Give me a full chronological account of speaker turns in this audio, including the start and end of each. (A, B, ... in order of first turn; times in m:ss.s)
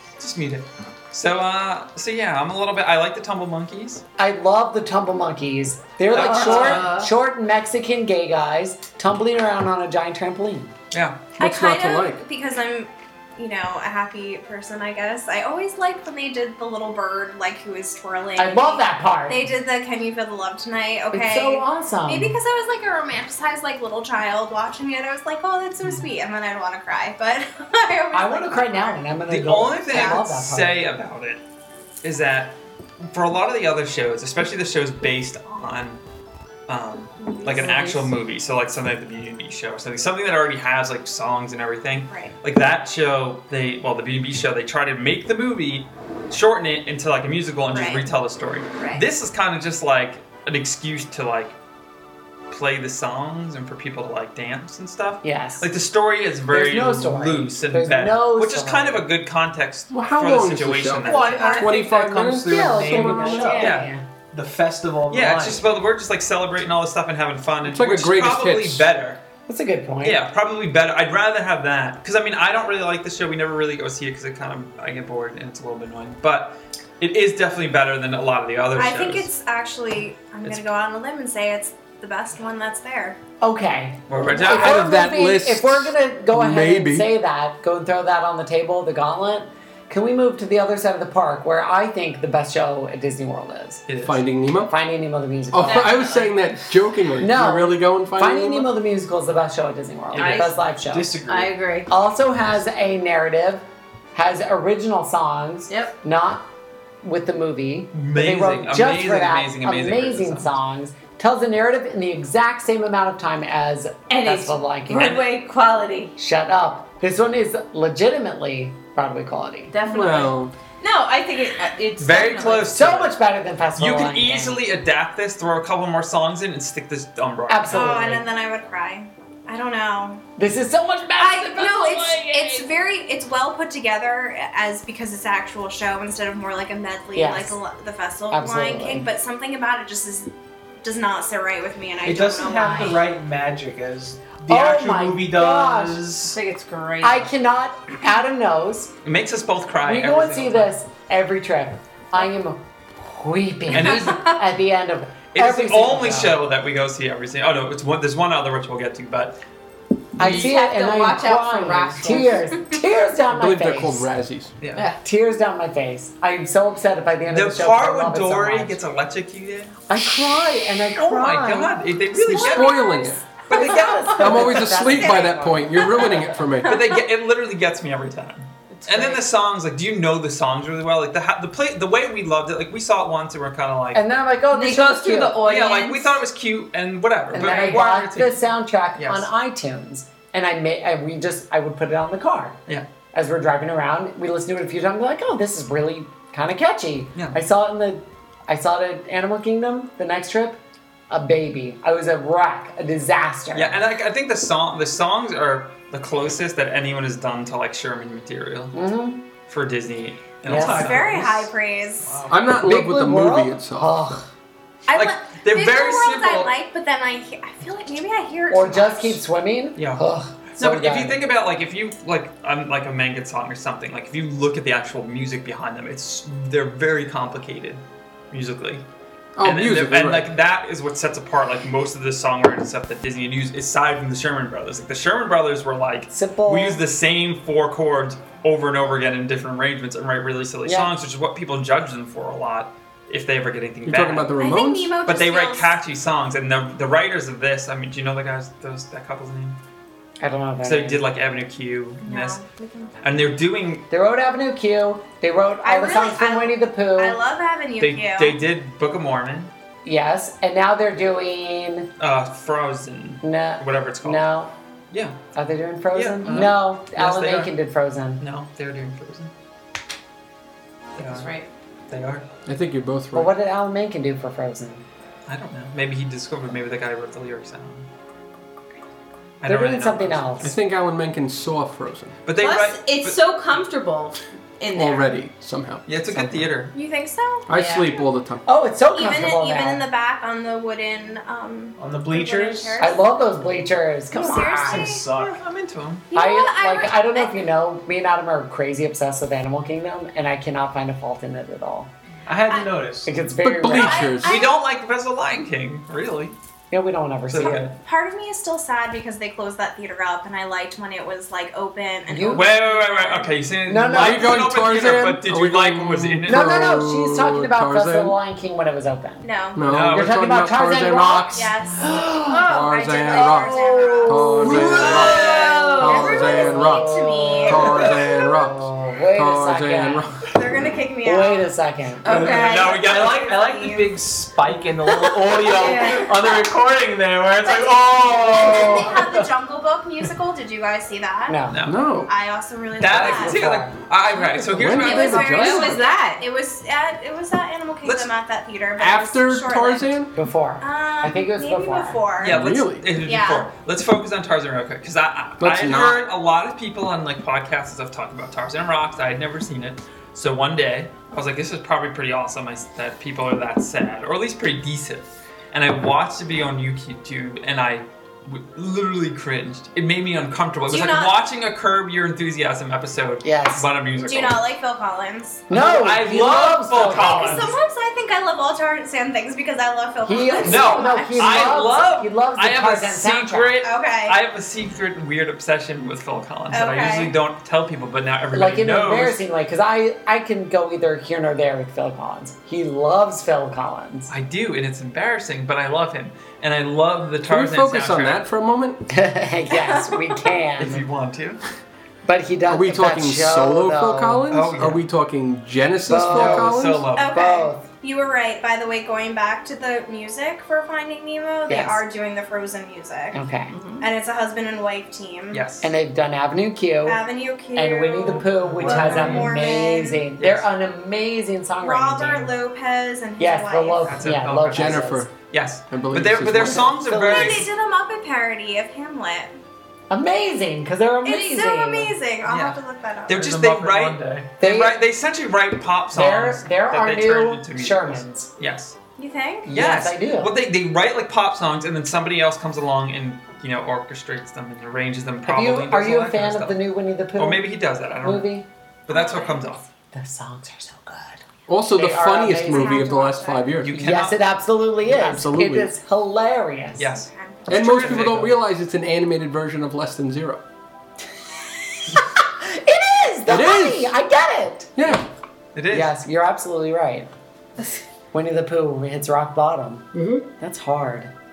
0:00.2-0:04.0 A
0:04.2-0:10.7 B
0:06.1-0:06.9 A
0:06.1-0:07.1 C
0:10.9-0:11.2 A
0:11.4-0:29.0 D
0:11.4-0:12.2 E
0:18.4-0:19.4 B
0:21.1-0:22.4 B
0:28.1-0:30.9 B
0:29.3-0:31.4 A
0:29.9-0:30.2 D
0:32.0-0:36.0 A
0:36.7-0:51.6 A
0:37.3-0:38.1 C
0:42.1-0:42.3 D
0:47.7-0:48.1 D
0:48.8-0:49.0 D
0:52.5-1:01.6 A
0:55.2-0:55.7 B
0:56.5-0:59.1 B
0:59.9-1:03.7 E
1:01.0-1:03.8 F
1:01.3-1:01.7 D
1:02.4-1:04.0 B
1:03.6-1:03.9 A
1:04.3-1:05.6 F
1:05.1-1:09.2 A
1:07.7-1:08.9 E
1:09.5-1:10.2 B
1:10.0-1:19.3 A
1:18.8-1:23.2 D
1:23.4-1:33.9 B
1:24.1-1:25.1 A
1:24.3-1:27.1 E
1:33.9-1:34.2 A
1:34.0-1:34.7 E
1:34.7-1:36.0 B
1:35.5-1:38.7 E
1:35.6-1:36.4 C
1:37.2-1:41.2 B
1:40.1-1:40.6 A
1:40.2-1:40.6 C
1:40.9-1:41.6 F
1:41.2-1:41.9 C
1:41.9-1:46.5 B
1:45.7-1:46.0 C
1:47.0-1:55.2 B
1:47.9-1:50.6 A
1:54.1-1:56.2 C
1:55.0-1:55.2 A
1:56.2-1:59.7 B
1:59.7-2:02.7 C
1:59.9-2:00.5 E
2:02.0-2:03.2 A
2:02.7-2:04.6 B
2:03.8-2:07.9 A
2:07.5-2:08.3 B
2:07.7-2:10.2 D
2:10.4-2:12.7 B
2:11.2-2:20.3 D
2:17.1-2:17.6 B
2:18.3-2:19.1 B
2:20.8-2:23.0 D
2:22.0-2:26.4 F
2:24.5-2:26.0 B
2:26.2-2:27.3 C
2:27.0-2:28.9 B
2:29.0-2:30.8 A
2:29.8-2:36.4 B
2:33.7-2:34.3 A
2:33.7-2:34.4 C
2:35.3-2:39.4 A
2:40.2-2:40.5 A
2:40.2-2:44.1 B
2:40.2-2:42.8 C
2:43.3-2:44.7 E
2:44.6-2:44.9 A
2:44.7-2:45.0 C
2:45.0-2:48.8 B
2:47.3-2:49.8 A
2:49.9-2:56.5 B
2:51.0-2:52.9 A
2:52.2-2:53.2 E
2:53.5-2:54.7 A
2:53.6-2:54.0 D
2:54.2-2:56.9 E
2:54.8-2:56.2 D
2:56.6-3:04.0 A
2:58.9-2:59.2 C
3:03.9-3:05.4 B
3:04.5-3:06.2 C
3:05.4-3:08.4 A
3:07.3-3:12.6 B
3:09.0-3:09.3 A
3:13.1-3:23.8 B
3:23.5-3:28.8 A
3:28.7-3:29.3 B
3:29.5-3:31.3 A
3:30.4-3:31.0 B
3:30.5-3:32.3 D
3:30.5-3:31.5 F
3:32.0-3:32.6 F
3:32.3-3:33.9 E
3:32.6-3:34.3 B
3:34.9-3:39.2 D
3:34.9-3:36.6 A
3:38.5-3:41.2 B
3:39.8-3:48.8 A
3:49.4-3:50.3 E
3:49.4-4:04.3 A
3:56.1-3:56.8 B
4:00.6-4:00.9 B
4:03.8-4:05.0 E
4:04.4-4:05.8 D
4:05.1-4:09.6 A
4:10.2-4:11.0 B
4:10.6-4:12.4 A
4:12.0-4:13.3 D
4:13.0-4:13.9 A
4:13.9-4:17.2 B
4:15.6-4:18.4 D
4:17.8-4:19.5 A
4:19.8-4:21.9 B
4:22.0-4:24.3 A
4:23.2-4:24.5 B
4:24.9-4:25.2 A
4:25.3-4:28.2 B
4:25.9-4:27.5 A
4:28.2-4:29.3 A
4:31.0-4:31.5 C
4:31.0-4:31.3 A
4:31.9-4:32.3 A
4:32.5-4:33.3 E
4:33.1-4:34.8 B
4:35.3-4:37.9 A
4:39.4-4:40.3 A
4:39.4-4:40.6 B
4:40.4-4:42.2 E
4:42.2-4:43.2 A
4:42.4-4:45.2 C
4:44.7-4:46.5 E
4:45.9-4:46.7 A
4:46.7-4:47.5 D
4:47.5-4:48.4 E
4:47.5-4:48.0 C
4:48.5-4:49.8 B
4:48.9-4:53.2 D
4:51.8-4:52.9 F
4:52.8-4:54.9 B
4:54.1-4:55.1 D
4:54.2-4:55.4 F
4:55.1-4:56.1 A
4:56.1-4:57.4 D
4:56.1-5:01.9 B
5:02.3-5:03.1 F
5:02.5-5:02.7 D
5:03.0-5:04.2 B
5:03.4-5:04.3 E
5:03.6-5:04.6 D
5:04.2-5:06.4 A
5:06.7-5:07.7 B
5:07.3-5:07.7 A
5:07.4-5:13.3 D
5:12.1-5:12.5 B
5:12.3-5:16.8 A
5:13.7-5:14.4 B
5:13.9-5:18.2 E
5:16.3-5:19.3 B
5:19.2-5:19.6 D
5:19.6-5:21.5 E
5:19.7-5:20.1 A
5:19.9-5:30.2 B
5:20.9-5:25.2 D
5:22.4-5:30.2 E
5:24.5-5:25.6 A
5:24.5-5:26.3 C
5:25.8-5:28.0 D
5:30.3-5:31.5 D
5:31.0-5:32.3 B
5:32.0-5:32.8 C
5:32.1-5:39.3 F
5:32.1-5:33.9 D
5:32.1-5:33.4 A
5:34.9-5:36.1 D
5:35.5-5:36.1 C
5:37.4-5:41.4 D
5:41.3-5:41.6 B
5:41.5-5:41.8 A
5:41.7-5:42.1 E
5:42.1-5:43.4 D
5:42.8-5:45.7 A
5:42.9-5:43.8 B
5:44.4-5:50.0 D
5:44.5-5:45.8 E
5:44.9-5:46.2 C
5:47.8-5:48.1 A
5:48.8-5:50.1 E
5:50.2-5:52.0 B
5:50.6-5:52.4 D
5:52.2-6:14.4 A
5:52.2-5:52.9 E
5:53.0-5:53.5 D
5:55.4-5:56.1 E
6:10.7-6:11.2 D
6:13.2-6:13.7 B
6:14.0-6:15.4 D
6:15.5-6:17.5 B
6:15.5-6:17.6 A
6:16.8-6:21.5 D
6:20.0-6:23.5 B
6:20.4-6:29.2 A
6:23.6-6:24.2 D
6:26.5-6:27.2 D
6:28.3-6:34.1 B
6:34.1-6:38.2 A
6:37.2-6:38.9 E
6:38.9-6:40.8 B
6:39.5-6:40.2 D
6:40.6-6:41.4 A
6:42.0-6:44.3 B
6:42.5-6:46.9 E
6:44.3-6:44.9 A
6:45.9-6:47.7 B
6:46.1-6:47.2 A
6:47.0-6:53.2 D
6:51.5-6:51.8 B
6:53.1-6:53.5 B
6:53.5-6:53.9 C
6:53.8-6:55.4 D
6:55.3-6:55.7 A
6:55.6-6:57.0 B
6:56.8-7:00.1 D
6:57.6-7:02.3 B
6:58.6-6:59.2 A
7:00.2-7:00.5 A
7:01.6-7:04.0 D
7:03.2-7:05.1 B
7:03.9-7:07.5 A
7:04.5-7:05.2 E
7:05.7-7:06.8 E
7:06.4-7:07.5 B
7:07.0-7:09.3 D
7:09.9-7:11.9 B
7:11.0-7:13.2 D
7:12.3-7:18.8 A
7:13.1-7:14.3 F
7:14.4-7:14.8 B
7:15.9-7:18.3 B
7:19.0-7:19.5 D
7:19.4-7:20.3 B
7:19.5-7:26.6 A
7:25.2-7:28.5 B
7:27.2-7:28.4 A
7:28.9-7:29.6 A
7:28.9-7:29.6 D
7:29.9-7:32.9 B
7:31.5-7:33.8 E
7:32.4-7:33.6 D
7:33.6-7:34.2 A
7:33.7-7:36.9 B
7:34.8-7:35.7 E
7:36.8-7:38.4 A
7:36.9-7:38.1 D
7:37.5-7:40.4 E
7:41.9-7:44.9 B
7:43.3-7:43.9 E
7:44.8-7:45.0 E
7:45.6-7:45.9 A
7:45.7-7:47.1 B
7:48.1-7:51.1 B
7:49.9-7:50.3 E